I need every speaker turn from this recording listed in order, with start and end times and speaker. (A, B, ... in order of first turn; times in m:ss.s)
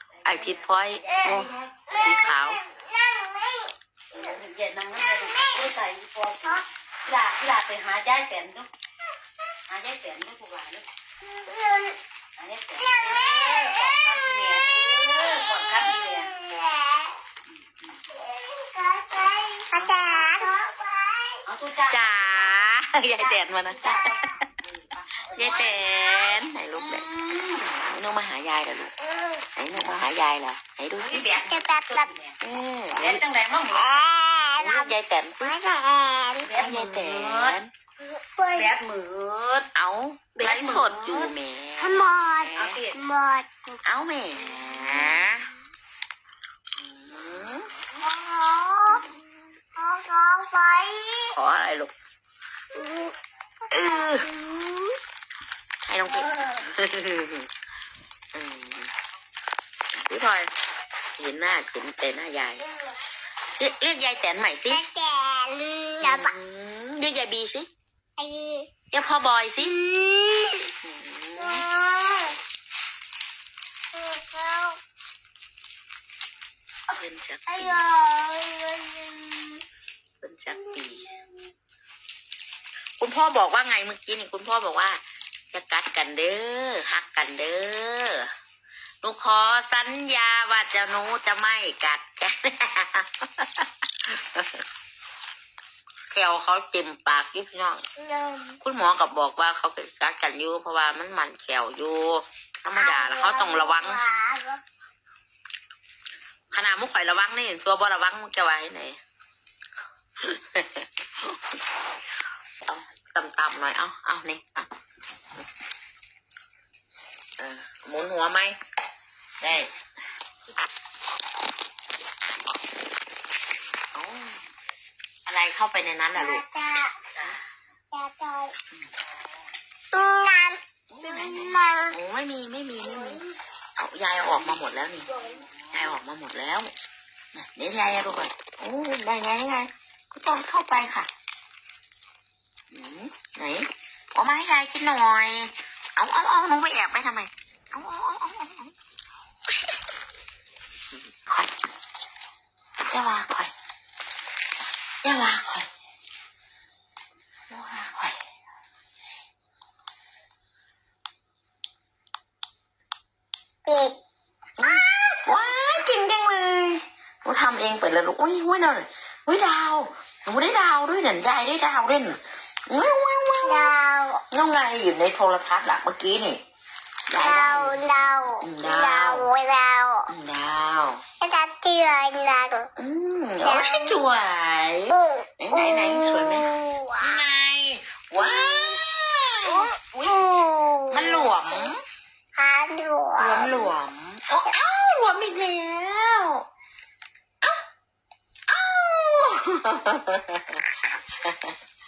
0:00.2-0:01.5 A
0:00.2-0:02.6 B
0:01.1-0:04.4 C
0:04.1-0:08.7 A
0:05.2-0:05.6 C
0:09.7-0:10.8 A
0:11.2-0:12.0 C
0:12.4-0:16.3 A
0:12.8-0:14.3 C
0:14.9-0:17.2 C
0:17.6-0:18.0 A
0:18.1-0:21.5 C
0:19.7-0:20.4 A
0:21.5-0:26.0 A
0:21.9-0:24.5 B
0:25.3-0:27.1 B
0:25.9-0:26.3 C
0:26.8-0:27.7 A
0:27.7-0:29.0 B
0:29.0-0:29.4 C
0:29.6-0:31.4 B
0:31.0-0:32.4 A
0:31.5-0:32.1 C
0:32.4-0:33.2 B
0:32.9-0:34.1 A
0:33.7-0:36.5 C
0:34.6-0:35.6 B
0:36.4-0:37.6 A
0:36.6-0:37.7 B
0:38.0-0:38.8 C
0:38.5-0:39.7 A
0:39.8-0:42.8 B
0:40.4-0:41.3 A
0:41.8-0:43.8 C
0:42.6-0:43.0 A
0:43.8-0:45.5 B
0:44.6-0:45.0 C
0:46.8-0:47.7 B
0:48.0-0:49.1 C
0:49.8-0:51.4 C
0:51.3-0:51.9 B
0:52.7-0:53.1 C
0:53.7-0:55.0 C
0:53.7-0:54.3 B
0:55.8-0:57.5 B
0:56.1-0:56.7 C
0:58.3-0:58.9 B
1:00.0-1:00.5 B
1:01.2-1:02.6 B
1:03.5-1:04.8 B
1:04.7-1:06.3 C
1:06.0-1:07.7 B
1:08.2-1:08.7 C
1:08.9-1:09.8 B
1:09.6-1:10.7 C
1:10.8-1:11.7 B
1:11.4-1:12.4 C
1:13.9-1:14.8 C
1:16.9-1:17.9 B
1:17.5-1:19.6 C
1:20.2-1:21.1 B
1:20.5-1:21.3 C
1:23.0-1:25.0 B
1:25.5-1:28.3 B
1:29.0-1:34.6 B
1:36.1-1:37.8 B
1:38.0-1:38.6 C
1:38.6-1:44.0 B
1:42.7-1:44.6 C
1:46.5-1:49.0 B
1:50.2-1:51.5 B
1:52.6-1:54.7 B
1:57.4-1:58.6 B
1:59.4-1:59.7 B
2:03.9-2:04.4 B
2:05.3-2:06.4 B
2:06.1-2:07.1 C
2:07.9-2:08.6 C
2:09.9-2:12.0 C
2:10.9-2:13.2 B
2:12.8-2:13.3 C
2:13.8-2:15.1 B
2:15.1-2:15.5 C
2:15.7-2:16.7 B
2:17.3-2:21.1 B
2:22.7-2:28.7 B
2:31.2-2:31.5 B
2:32.9-2:33.5 B
2:35.0-2:35.7 B
2:37.5-2:38.2 B
2:43.6-2:44.0 C
2:44.6-2:53.7 B
2:44.6-2:45.4 C
2:53.3-2:54.2 C
2:54.3-2:56.4 B
2:57.1-2:59.3 B
2:57.1-3:00.1 C
3:00.1-3:01.0 B
3:01.2-3:02.7 C
3:02.8-3:10.2 B
3:03.4-3:04.0 C
3:04.9-3:07.2 C
3:08.2-3:08.7 C
3:09.4-3:11.6 C
3:10.9-3:11.8 B
3:12.4-3:13.7 C
3:13.2-3:16.5 B
3:18.5-3:21.6 B